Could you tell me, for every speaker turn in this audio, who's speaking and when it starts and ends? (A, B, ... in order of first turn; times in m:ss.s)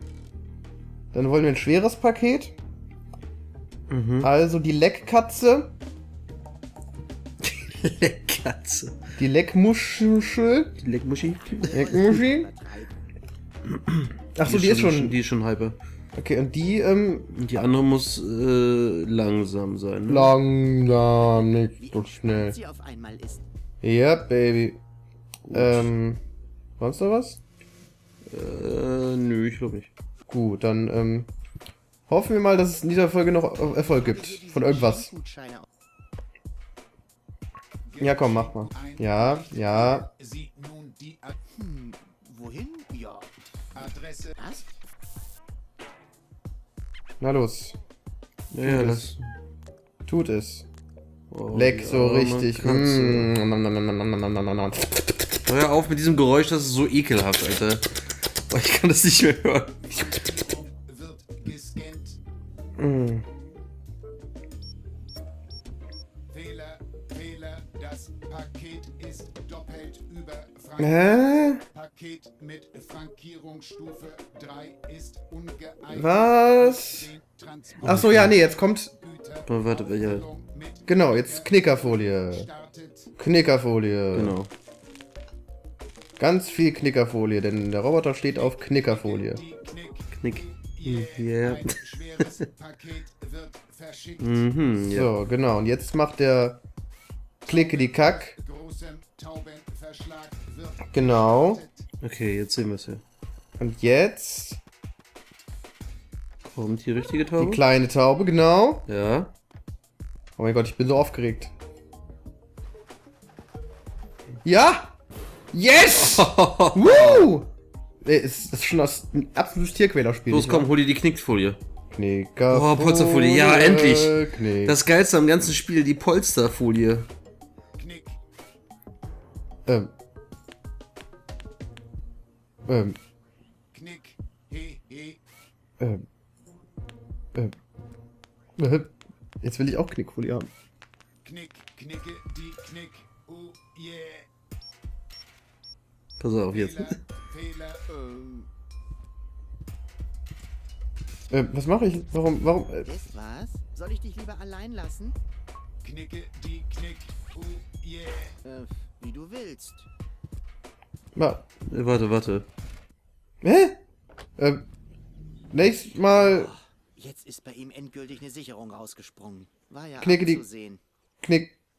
0:01.1-0:02.5 A
0:03.9-0:04.3 B
0:04.2-0:05.7 A
0:07.4-0:09.0 B
0:09.2-0:10.8 A
0:10.8-0:12.0 B
0:11.2-0:13.1 C
0:11.6-0:12.5 A
0:13.7-0:15.8 B
0:14.3-0:15.2 A
0:16.1-0:17.3 A
0:17.3-0:20.3 B
0:20.1-0:22.6 A
0:21.8-0:23.4 C
0:23.8-0:24.8 A
0:25.4-0:25.9 B
0:25.5-0:26.2 A
0:26.8-0:27.4 A
0:28.2-0:29.9 B
0:30.3-0:31.3 A
0:32.1-0:35.1 A
0:34.0-0:35.6 C
0:37.8-0:41.3 D
0:38.0-0:40.1 A
0:41.5-0:44.7 C
0:43.7-0:44.3 D
0:47.2-0:47.8 A
0:48.5-0:49.3 B
0:48.6-0:49.1 A
0:50.1-0:50.7 A
0:51.3-0:53.3 B
0:51.5-0:55.4 A
0:55.4-1:00.4 B
0:59.8-1:02.2 D
1:02.8-1:03.2 A
1:06.3-1:18.4 D
1:10.8-1:11.6 A
1:15.9-1:17.1 A
1:17.8-1:18.4 B
1:17.8-1:18.9 A
1:19.0-1:23.1 D
1:19.4-1:20.3 B
1:20.8-1:22.5 A
1:23.2-1:24.4 A
1:24.1-1:24.5 B
1:26.2-1:29.4 A
1:28.4-1:34.4 D
1:30.1-1:32.4 B
1:34.2-1:35.1 B
1:34.9-1:36.6 A
1:37.4-1:41.8 D
1:37.5-1:38.4 A
1:40.9-1:41.6 A
1:42.0-1:43.0 B
1:43.6-1:44.6 A
1:46.4-1:47.6 B
1:47.4-1:48.9 A
1:48.9-1:49.3 B
1:50.4-1:51.5 A
1:54.4-1:54.9 A
1:55.5-1:57.5 A
1:56.0-1:57.3 B
1:58.0-2:00.7 A
2:00.3-2:01.6 B
2:01.9-2:04.8 A
2:02.5-2:07.1 B
2:07.8-2:08.2 D
2:09.6-2:09.9 A
2:12.7-2:13.0 A
2:13.7-2:15.2 D
2:18.6-2:20.5 A
2:21.2-2:24.3 D
2:26.2-2:27.0 B
2:26.5-2:27.8 D
2:27.9-2:28.5 C
2:31.3-2:32.9 A
2:32.8-2:35.2 C
2:35.8-2:38.4 D
2:38.4-2:39.9 C
2:41.1-2:41.4 A
2:41.6-2:42.5 B
2:43.4-2:43.8 A
2:44.4-2:44.6 A
2:45.5-2:46.5 A
2:46.1-2:50.8 C
2:50.0-2:50.4 A
2:51.2-2:51.5 A